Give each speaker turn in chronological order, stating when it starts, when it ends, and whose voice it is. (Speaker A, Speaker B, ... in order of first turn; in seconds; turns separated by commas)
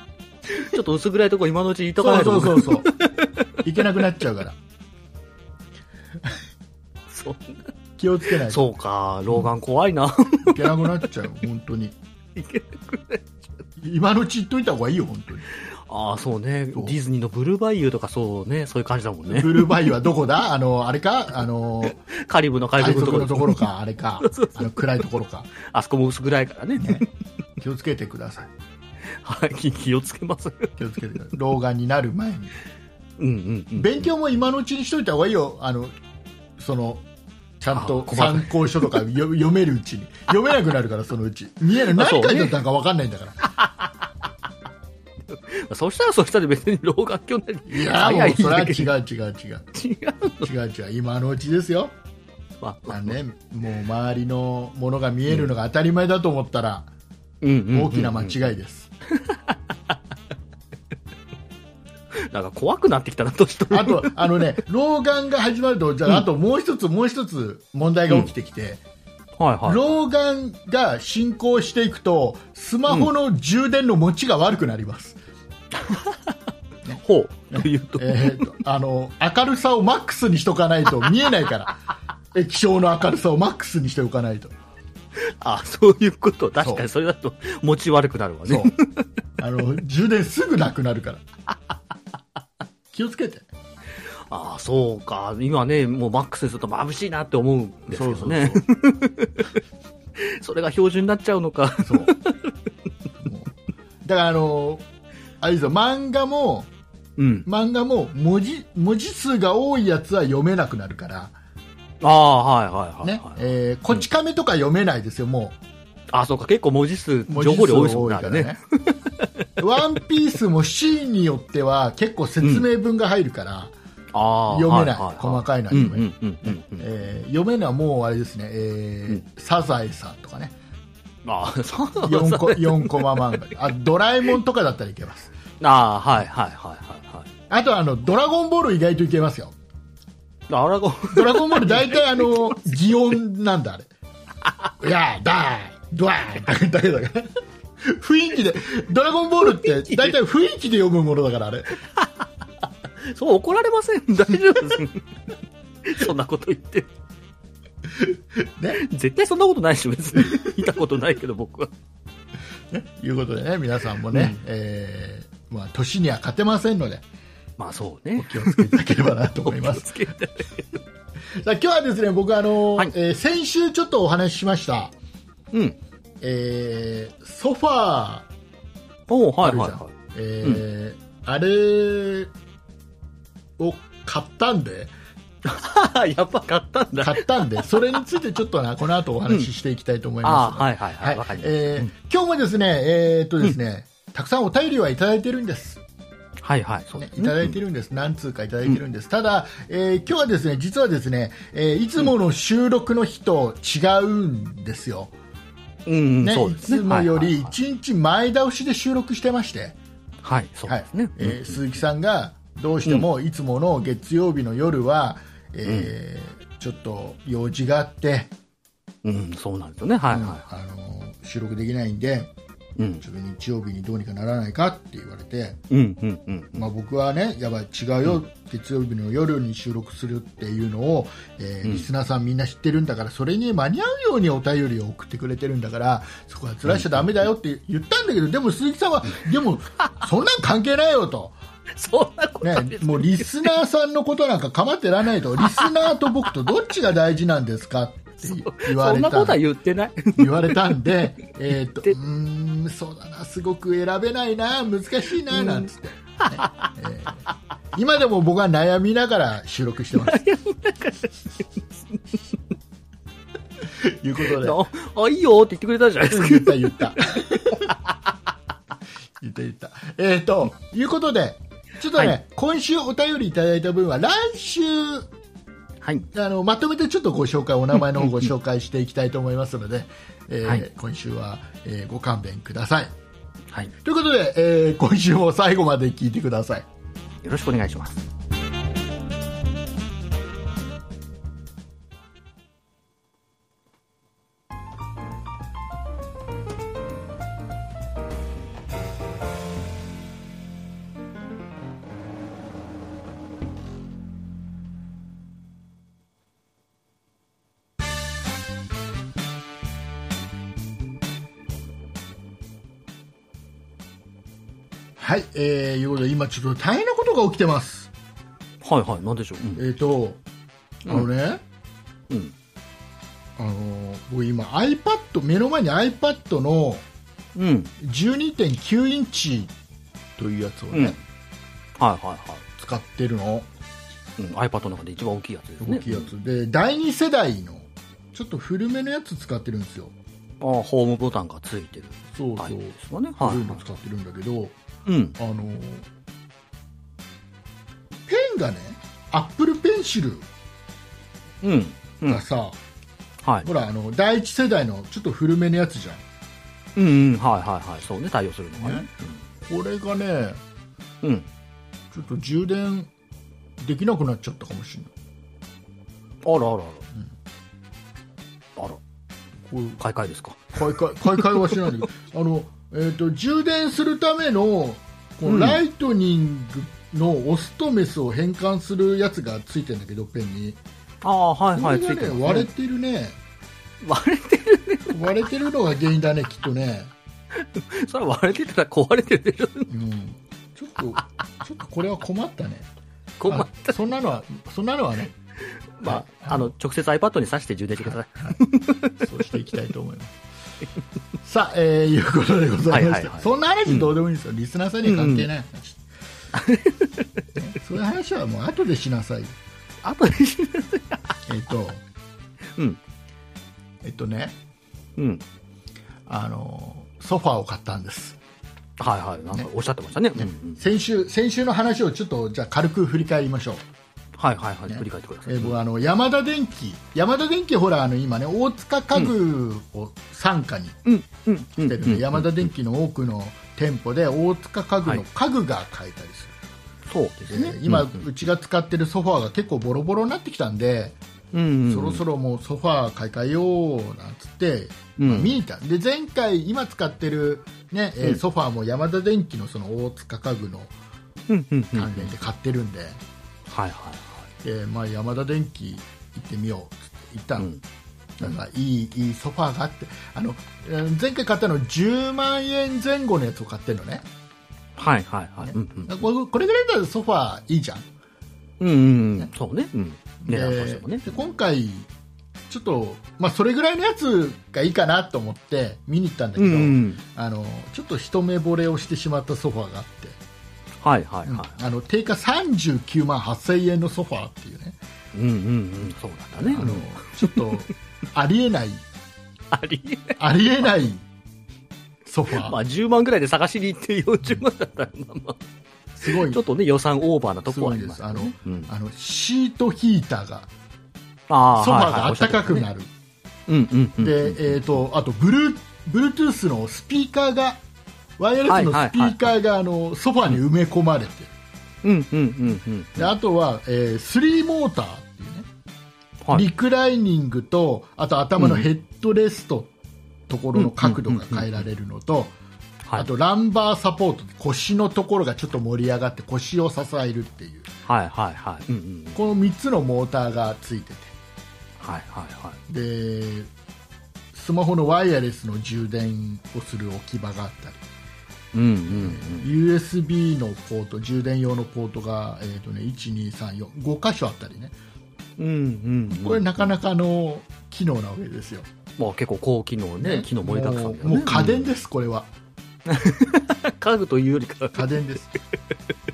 Speaker A: 0.5-3.5, Speaker B: 2.0-2.9, Speaker B: 3.6-4.6, Speaker A: 7.1-7.7, Speaker B: 8.0-8.6, Speaker A: 8.5-10.8, Speaker B: 10.5-12.0, Speaker A: 12.4-13.3, Speaker B: 13.8-15.5, Speaker A: 15.9-19.9, Speaker B: 19.3-22.0, Speaker A: 21.9-23.7, Speaker B: 22.8-25.5, Speaker A: 24.2-24.8, Speaker A: 25.6-27.1, Speaker B: 26.8-27.1, Speaker B: 27.6-28.5, Speaker A: 29.2-30.8, Speaker B: 30.8-32.5, Speaker A: 33.2-34.1, Speaker B: 33.8-36.0, Speaker B: 36.6-37.0, Speaker B: 37.6-43.4, Speaker A: 37.7-38.9, Speaker A: 41.9-42.6, Speaker A: 45.3-48.9, Speaker B: 47.7-49.7, Speaker A: 49.7-50.5, Speaker B: 50.4-52.0, Speaker A: 52.6-53.2, Speaker B: 52.9-56.9, Speaker A: 57.4-58.5, Speaker B: 57.7-58.9, Speaker A: 59.2-59.6, Speaker A: 62.3-64.4, Speaker B: 63.7-68.8, Speaker A: 69.4-69.8, Speaker B: 69.7-75.2, Speaker A: 75.8-76.2, Speaker A: 76.9-78.5, Speaker B: 77.5-81.8, Speaker B: 82.3-84.5, Speaker A: 85.2-89.0, Speaker B: 86.6-86.8, Speaker B: 88.5-88.8, Speaker B: 89.4-91.2, Speaker B: 92.9-93.5, Speaker A: 94.3-99.5, Speaker B: 97.9-98.6, Speaker A: 100.2-102.5, Speaker B: 101.8-102.1, Speaker B: 103.2-103.5, Speaker B: 104.0-104.8, Speaker B: 105.4-106.7, Speaker A: 107.2-107.5, Speaker B: 107.5-111.4, Speaker A: 112.0-113.4, Speaker B: 113.0-115.6, Speaker A: 116.1-119.3, Speaker B: 117.3-118.6, Speaker B: 119.6-123.8, Speaker A: 122.4-122.7, Speaker A: 124.1-126.9, Speaker B: 124.5-130.6, Speaker A: 131.2-133.4, Speaker B: 132.0-135.3, Speaker A: 135.6-137.3, Speaker B: 137.5-139.6, Speaker A: 140.5-142.6, Speaker B: 141.1-143.9, Speaker B: 144.8-151.8, Speaker A: 149.8-150.1, Speaker A: 153.0-155.1, Speaker A: 155.8-156.9, Speaker B: 158.0-158.8, Speaker A: 158.7-161.7, Speaker B: 162.7-167.0, Speaker A: 164.1-164.4, Speaker A: 167.6-168.8, Speaker B: 168.2-170.1, Speaker A: 169.4-170.7, Speaker B: 171.3-174.9, Speaker B: 176.2-178.3, Speaker A: 179.1-179.9, Speaker B: 179.4-182.3, Speaker B: 183.6-184.9, Speaker A: 185.4-187.8, Speaker B: 187.0-195.8, Speaker A: 190.2-191.9, Speaker A: 196.4-197.6, Speaker B: 197.0-205.1, Speaker A: 205.9-207.5, Speaker B: 206.2-209.8, Speaker A: 210.2-211.6, Speaker B: 210.7-218.3, Speaker A: 215.7-215.9, Speaker A: 219.0-220.4, Speaker B: 220.1-222.3, Speaker A: 222.8-223.0, Speaker B: 223.0-225.6, Speaker A: 225.7-226.7, Speaker B: 226.6-241.4, Speaker A: 236.7-237.1, Speaker A: 241.8-243.6, Speaker B: 242.4-249.4, Speaker A: 245.4-245.9, Speaker A: 248.2-250.8, Speaker B: 250.2-257.2, Speaker A: 255.3-255.7, Speaker A: 256.2-256.7, Speaker B: 257.7-260.2, Speaker A: 259.9-262.0, Speaker B: 263.8-264.6, Speaker A: 264.3-267.0, Speaker B: 266.1-267.7, Speaker B: 269.2-275.1, Speaker A: 275.8-276.1, Speaker B: 276.1-282.9, Speaker B: 283.8-286.7, Speaker A: 287.2-288.1, Speaker B: 315.0-317.9, Speaker A: 318.6-319.6, Speaker B: 319.6-320.2, Speaker B: 320.9-321.4, Speaker B: 323.4-326.9, Speaker A: 327.4-327.7, Speaker B: 327.8-329.5, Speaker B: 330.2-331.0, Speaker A: 330.7-331.0, Speaker A: 331.8-332.4, Speaker B: 332.6-333.5, Speaker A: 334.2-336.1, Speaker B: 335.6-339.9, Speaker A: 340.4-343.6, Speaker B: 342.1-344.5, Speaker A: 344.9-345.2, Speaker B: 345.2-345.9, Speaker B: 348.1-350.2, Speaker A: 351.4-352.2, Speaker B: 352.1-352.6, Speaker B: 353.4-356.0, Speaker A: 356.8-359.2, Speaker B: 358.6-358.9, Speaker B: 359.4-360.4, Speaker A: 361.0-361.3, Speaker B: 361.9-362.9, Speaker B: 363.6-364.9, Speaker A: 366.2-366.9, Speaker B: 369.4-369.8, Speaker A: 369.8-371.6, Speaker B: 370.5-380.6, Speaker A: 375.2-375.6, Speaker A: 381.0-382.5, Speaker B: 381.5-383.2, Speaker A: 383.8-385.0, Speaker B: 384.9-386.9, Speaker A: 387.4-389.7, Speaker B: 389.7-392.7, Speaker A: 393.2-393.8, Speaker B: 393.3-395.1, Speaker A: 395.8-399.1, Speaker B: 395.8-396.5, Speaker B: 397.9-398.4, Speaker B: 399.0-400.2, Speaker B: 401.2-405.8, Speaker A: 402.7-403.9, Speaker A: 404.8-405.3, Speaker A: 406.3-407.1, Speaker B: 407.4-409.4, Speaker A: 409.8-411.1, Speaker B: 411.3-411.8, Speaker B: 413.8-414.4, Speaker A: 415.0-415.2, Speaker B: 416.1-418.2, Speaker A: 418.8-420.6, Speaker B: 420.2-423.6, Speaker A: 424.2-425.6, Speaker B: 424.7-430.8, Speaker A: 430.9-432.5, Speaker B: 431.6-436.4, Speaker A: 436.9-438.1, Speaker B: 437.3-441.0, Speaker A: 441.3-442.0, Speaker B: 441.7-450.7, Speaker A: 445.0-445.4, Speaker A: 451.3-452.1, Speaker B: 451.7-453.0, Speaker A: 453.5-454.2, Speaker B: 454.4-457.5, Speaker B: 458.2-464.0, Speaker A: 464.8-466.0, Speaker B: 465.4-467.9, Speaker A: 468.6-471.1, Speaker B: 470.2-471.9, Speaker B: 472.5-480.2, Speaker A: 476.4-477.0, Speaker A: 480.8-481.5, Speaker B: 481.2-484.8, Speaker A: 485.1-487.6, Speaker B: 486.4-488.8, Speaker A: 489.5-490.2, Speaker B: 490.2-491.1, Speaker B: 492.1-492.6, Speaker A: 492.3-495.4, Speaker B: 496.0-496.4, Speaker A: 496.1-498.7, Speaker B: 497.5-500.5, Speaker A: 501.3-502.7, Speaker B: 501.6-502.9, Speaker A: 503.5-504.6, Speaker B: 504.0-507.6, Speaker B: 508.2-511.3, Speaker A: 508.5-509.3, Speaker A: 511.8-513.1, Speaker B: 513.0-515.5, Speaker A: 516.2-516.5, Speaker B: 516.3-519.7, Speaker A: 518.4-518.7, Speaker B: 520.3-522.4, Speaker A: 520.5-521.6, Speaker B: 523.0-527.7, Speaker A: 527.9-529.2, Speaker B: 529.2-531.1, Speaker A: 531.8-532.6, Speaker B: 532.7-533.5, Speaker B: 534.3-537.8, Speaker A: 538.5-539.5, Speaker B: 538.9-544.8, Speaker A: 545.4-546.7, Speaker B: 546.1-548.7, Speaker A: 549.0-551.7, Speaker B: 550.0-552.3, Speaker A: 552.9-555.0, Speaker B: 554.7-555.3